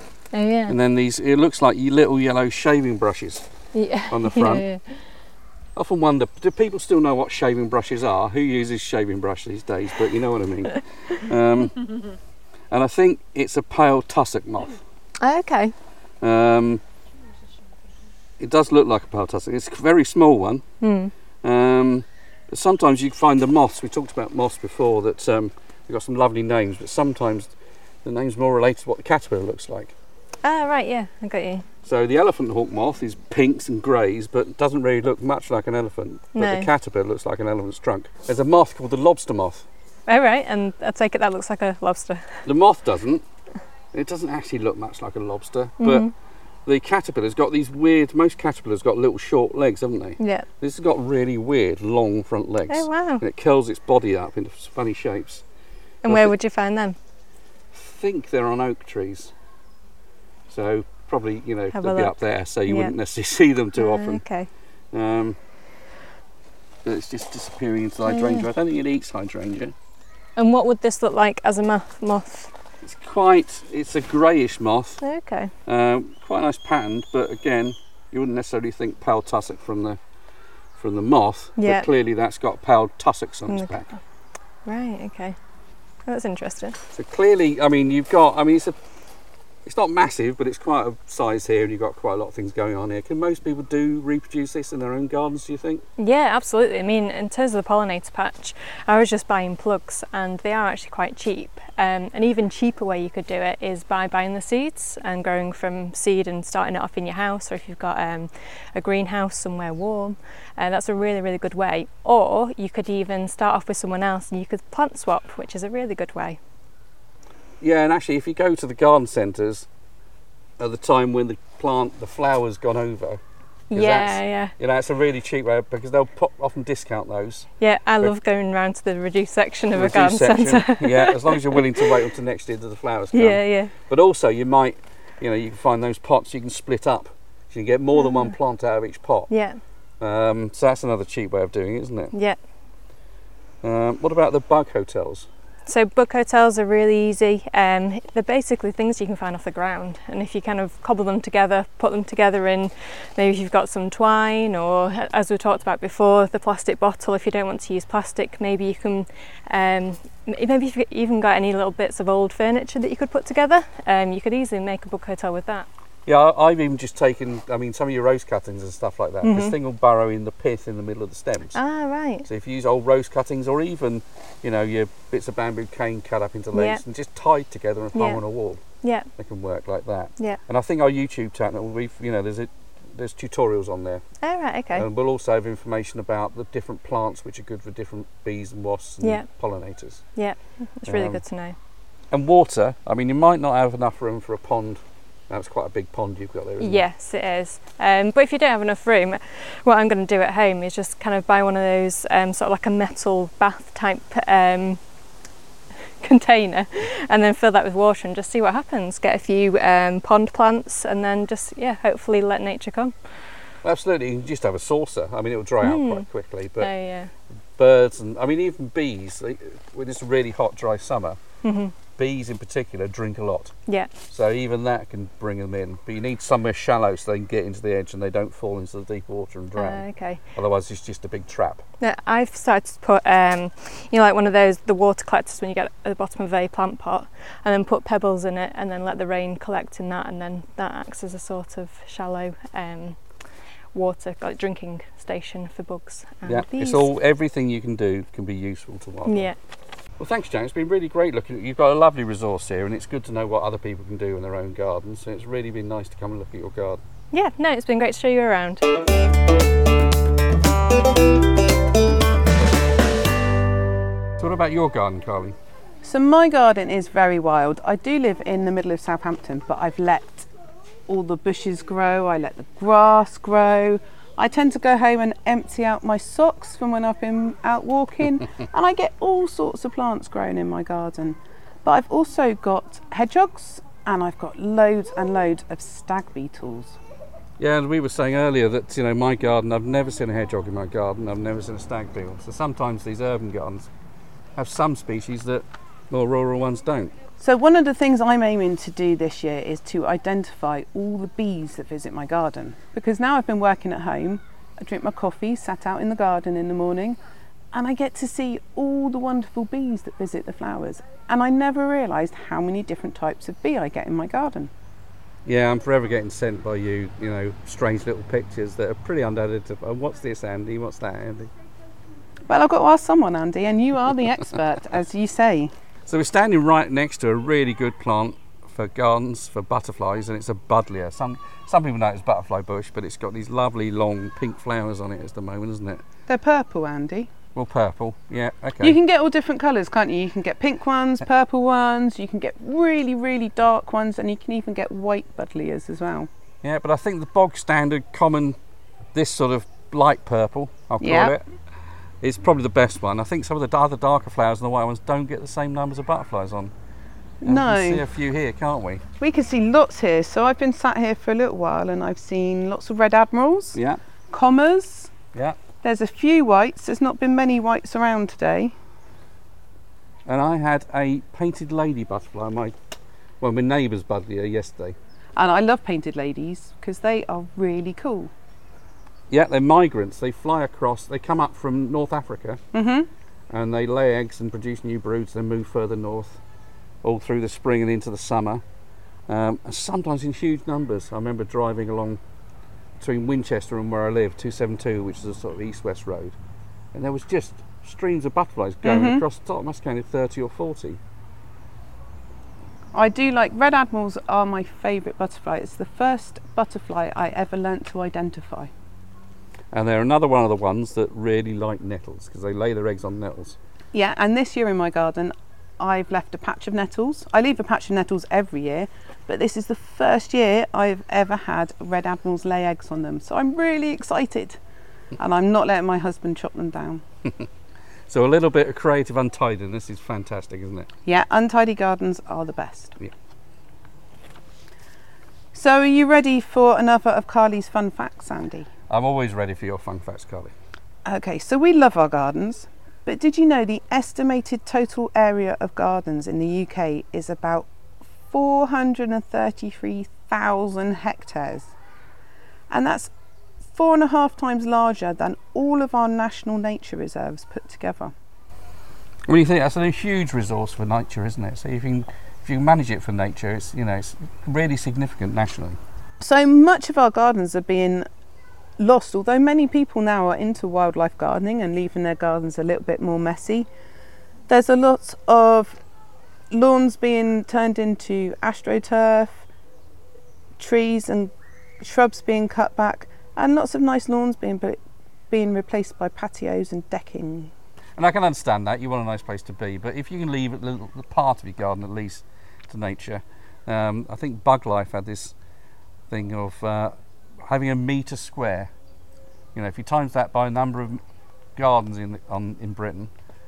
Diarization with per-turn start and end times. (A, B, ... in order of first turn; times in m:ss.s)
0:00.3-0:00.8 A
0:00.7-0:03.5 B
0:03.7-0:05.0 A
0:04.1-0:04.7 B
0:05.8-0:11.8 B
0:12.7-0:14.8 B
0:15.2-0:15.7 A
0:16.2-0:16.8 B
0:18.4-0:20.6 B
0:20.8-0:21.1 A
0:21.4-0:30.0 B
0:30.4-0:31.7 A
0:31.8-0:39.7 B
0:36.4-0:36.7 A
0:40.1-0:42.4 A
0:42.4-0:43.2 B
0:43.9-0:46.1 B
0:45.8-0:46.1 A
0:46.7-0:55.4 B
0:50.2-0:50.5 A
0:52.7-0:53.2 A
0:56.0-0:57.0 A
0:56.1-0:56.3 B
0:57.7-0:59.3 B
1:00.5-1:04.2 B
1:01.7-1:02.9 A
1:03.8-1:04.5 A
1:04.9-1:05.4 B
1:06.8-1:09.7 B
1:08.1-1:08.5 A
1:10.4-1:12.5 A
1:12.8-1:15.0 B
1:15.0-1:15.5 A
1:15.7-1:20.0 B
1:20.8-1:23.9 B
1:21.6-1:21.9 A
1:23.5-1:23.8 A
1:24.7-1:25.4 A
1:26.1-1:26.8 A
1:26.9-1:28.8 B
1:29.6-1:35.8 B
1:36.0-1:56.4 A
1:57.6-1:59.7 B
2:00.6-2:03.2 B
2:03.7-2:04.5 A
2:03.7-2:07.5 B
2:07.6-2:12.0 A
2:09.7-2:19.3 B
2:13.1-2:13.7 A
2:19.3-2:19.6 A
2:20.0-2:22.1 B
2:22.1-2:22.4 A
2:23.6-2:25.3 B
2:25.7-2:45.7 A
2:46.1-2:51.6 B
2:49.2-2:49.6 A
2:51.6-2:52.3 A
2:52.3-2:58.6 B
2:56.5-2:56.8 A
2:58.0-2:58.2 A
2:58.8-2:59.1 A
2:59.2-3:04.0 B
3:04.2-3:04.9 A
3:04.7-3:10.0 B
3:10.2-3:11.6 A
3:10.9-3:11.2 B
3:12.1-3:16.8 B
3:16.6-3:24.8 A
3:26.0-3:32.9 A
3:33.6-3:36.7 B
3:35.6-3:36.1 A
3:36.6-3:37.1 A
3:37.6-3:41.2 B
3:41.4-3:41.7 A
3:42.0-3:43.5 B
3:44.1-3:51.6 B
3:49.6-3:50.2 A
3:51.8-4:03.0 A
4:03.7-4:06.9 A
4:06.2-4:09.3 B
4:09.0-4:09.4 A
4:10.0-4:16.8 B
4:17.1-4:18.6 A
4:24.2-4:25.4 B
4:25.8-4:30.3 C
4:30.9-4:46.8 C
4:47.4-4:53.7 B
4:54.4-4:57.0 B
4:57.2-5:07.0 C
5:07.5-5:14.5 C
5:15.3-5:21.3 B
5:22.3-5:25.5 C
5:25.9-5:35.8 B
5:36.1-5:37.1 C
5:37.4-5:38.8 B
5:38.6-5:46.1 C
5:46.4-5:48.4 B
5:48.9-5:51.2 B
5:50.8-5:51.1 C
5:52.0-5:56.5 B
5:57.2-5:57.8 C
5:57.2-5:58.8 B
5:59.0-6:03.6 C
6:03.6-6:03.8 B
6:04.1-6:04.9 C
6:05.1-6:05.4 B
6:05.6-6:08.5 C
6:10.1-6:12.6 B
6:13.2-6:14.8 B
6:15.2-6:18.1 C
6:19.1-6:22.4 B
6:22.5-6:22.9 C
6:23.3-6:26.2 B
6:26.8-6:28.4 B
6:29.1-6:32.0 B
6:32.8-6:36.2 B
6:36.7-6:40.8 B
6:38.6-6:39.0 C
6:42.7-6:48.5 C
6:49.5-6:53.4 B
6:53.7-7:04.4 C
7:05.0-7:06.8 C
7:07.9-7:10.7 B
7:10.9-7:12.8 C
7:15.3-7:18.5 C
7:18.7-7:20.3 B
7:20.8-7:27.5 C
7:28.1-7:31.5 C
7:32.5-7:32.9 C
7:33.5-7:37.9 C
7:39.1-7:45.6 B
7:46.0-7:47.9 C
7:48.6-7:53.5 C
7:54.3-7:55.6 C
7:56.3-7:59.2 C
8:00.4-8:07.3 C
8:07.8-8:15.2 B
8:15.9-8:18.5 B
8:19.3-8:20.8 B
8:21.4-8:22.9 B